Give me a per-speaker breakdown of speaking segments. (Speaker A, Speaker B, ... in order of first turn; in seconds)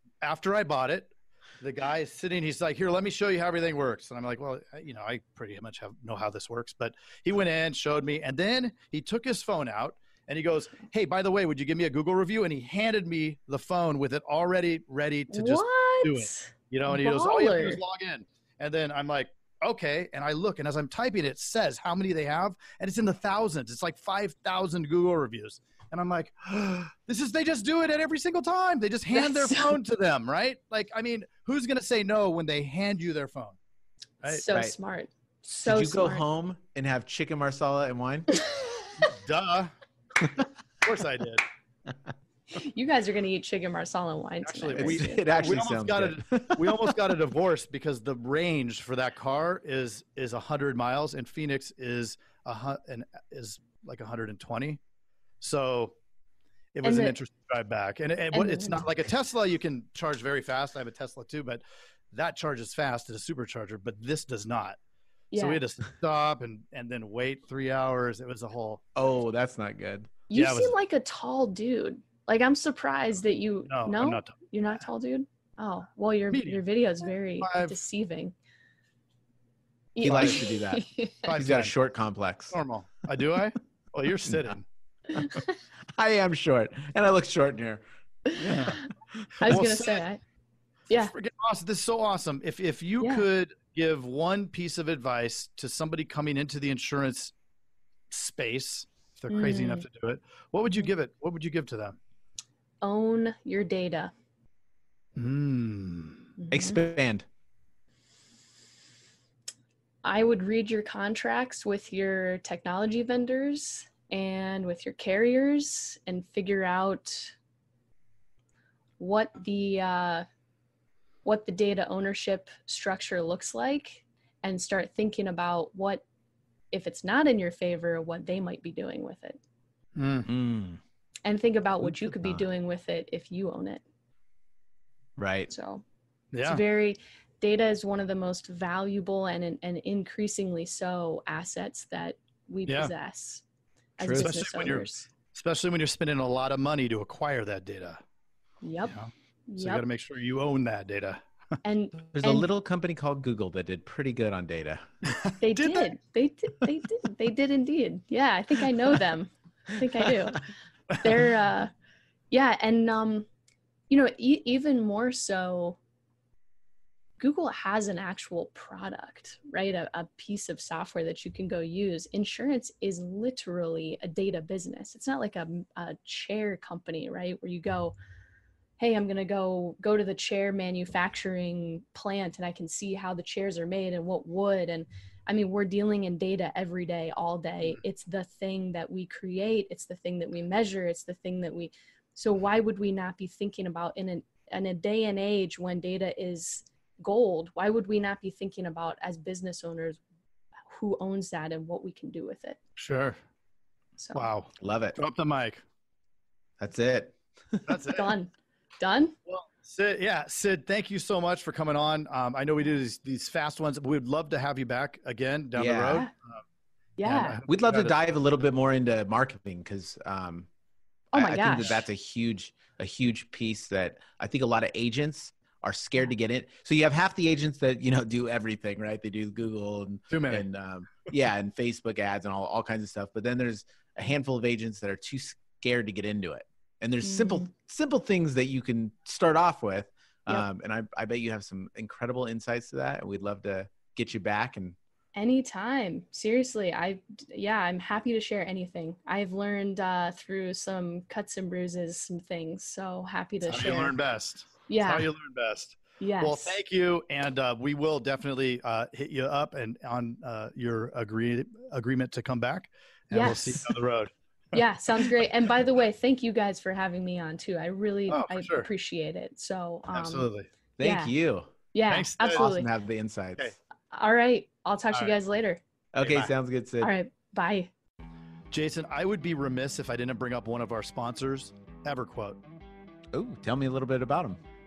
Speaker A: 0.2-33.6, 39.0-39.7, 40.8-41.4, 44.4-54.8, 55.4-55.9, 56.7-64.8, 65.3-68.8, 70.3-70.7, 73.7-74.5, 76.3-76.6, 77.4-77.7, 80.1-80.4, 81.2-81.7, 82.5-84.7, 88.4-88.8, 89.4-90.0, 91.1-97.3, 98.1-102.0, 105.2-106.2, 129.9-130.3, 136.3-136.6, 142.7-142.9, 144.1-148.0, 148.9-151.2, 155.2-155.9, 202.8-203.2, 204.1-205.6, 207.7-208.1, 209.3-216.1, 217.0-217.9, 230.1-230.4, 253.5-265.1, 268.1-268.7, 269.9-270.5, 271.9-272.5, 276.0-276.3, 278.5-282.4
Speaker B: 15.3-17.8, 29.1-29.7, 34.2-36.2, 42.5-45.3, 56.8-57.1, 58.3-58.8, 65.3-65.6, 70.3-78.3, 79.9-81.3, 85.1-85.5, 88.3-88.8, 89.4-90.2, 93.0-93.2, 99.3-99.8, 102.8-104.1, 106.4-106.8, 110.0-117.3, 119.0-120.2, 121.2-126.0, 126.7-129.4, 131.2-133.8, 135.5-135.8, 136.4-143.4, 144.0-145.1, 148.6-148.9, 149.5-149.8, 151.6-152.4, 155.4-161.7, 162.3-163.3, 163.9-165.8, 167.2-177.9, 178.8-200.0, 200.7-202.6, 204.0-204.3, 207.9-209.1, 217.0-217.4, 221.1-221.8, 237.0-237.5, 245.1-253.9, 254.7-255.1, 256.0-256.5, 263.1-263.7, 264.5-270.3, 270.8-271.1, 271.7-272.7, 273.9-275.6, 276.8-277.7
Speaker C: 35.6-38.3, 44.8-47.0, 69.0-70.1, 80.0-82.5, 86.0-89.6, 106.5-107.2, 130.2-130.8, 132.0-132.4, 135.2-135.5, 144.0-144.3, 152.1-154.9, 204.6-205.0, 206.6-207.6, 215.5-216.0, 217.5-220.5, 221.1-244.8, 270.8-271.5, 272.2-273.4, 275.9-276.9, 283.1-284.4